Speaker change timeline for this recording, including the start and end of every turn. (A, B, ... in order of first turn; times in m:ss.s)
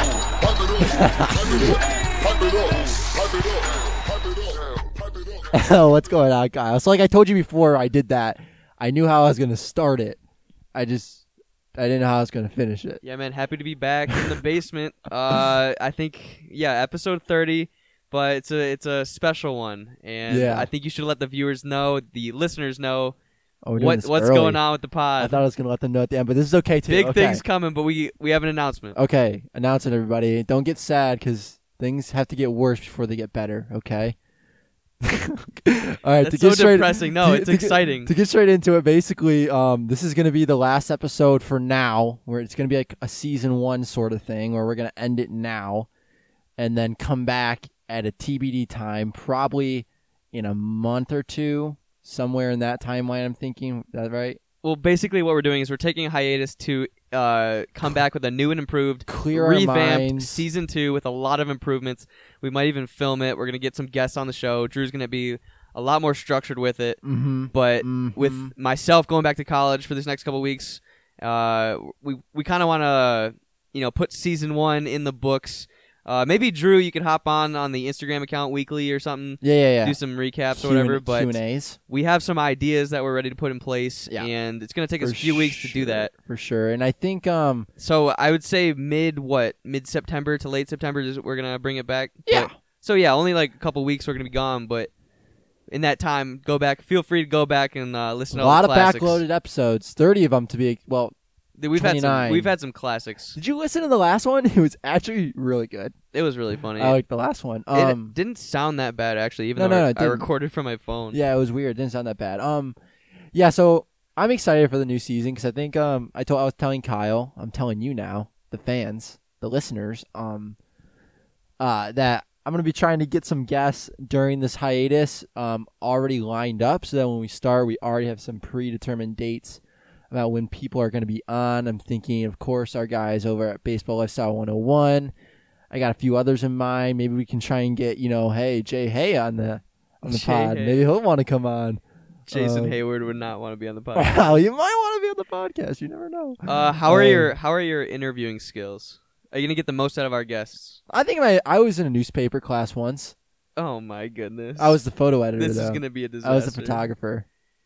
0:00.8-0:01.8 A
0:05.5-0:10.2 A
0:10.7-0:11.2 A
0:11.8-0:13.0 A
0:13.0-0:23.2 B
0:20.3-0:20.7 A
0:23.6-0:24.6 A
0:23.8-0:25.4 B
0:25.2-0:27.4 A
0:26.9-0:29.0 B
0:29.0-0:34.2 A
0:35.0-0:45.9 A
0:36.2-0:38.1 B
0:46.6-0:54.4 A
0:54.6-1:07.0 B
0:59.1-1:00.4 A
1:07.0-1:08.5 A
1:07.5-1:21.4 B
1:19.4-1:20.0 A
1:20.5-1:21.8 A
1:21.9-1:26.1 B
1:25.0-1:27.7 A
1:27.8-1:34.9 B
1:32.3-1:32.6 A
1:35.7-1:39.2 B
1:38.3-1:41.2 A
1:41.6-1:43.4 B
1:41.8-1:42.5 A
1:43.4-1:46.0 A
1:46.1-1:47.0 B
1:46.8-1:48.2 A
1:47.7-1:51.2 B
1:49.6-1:50.3 A
1:51.1-1:52.8 A
1:53.3-2:00.6 A
2:01.6-2:15.1 A
2:15.7-2:22.8 A
2:20.0-2:20.8 B
2:22.3-2:24.4 B
2:23.9-2:27.3 A
2:26.4-2:30.8 B
2:30.9-2:33.2 A
2:33.6-2:34.8 B
2:34.6-2:37.3 A
2:35.4-2:36.8 B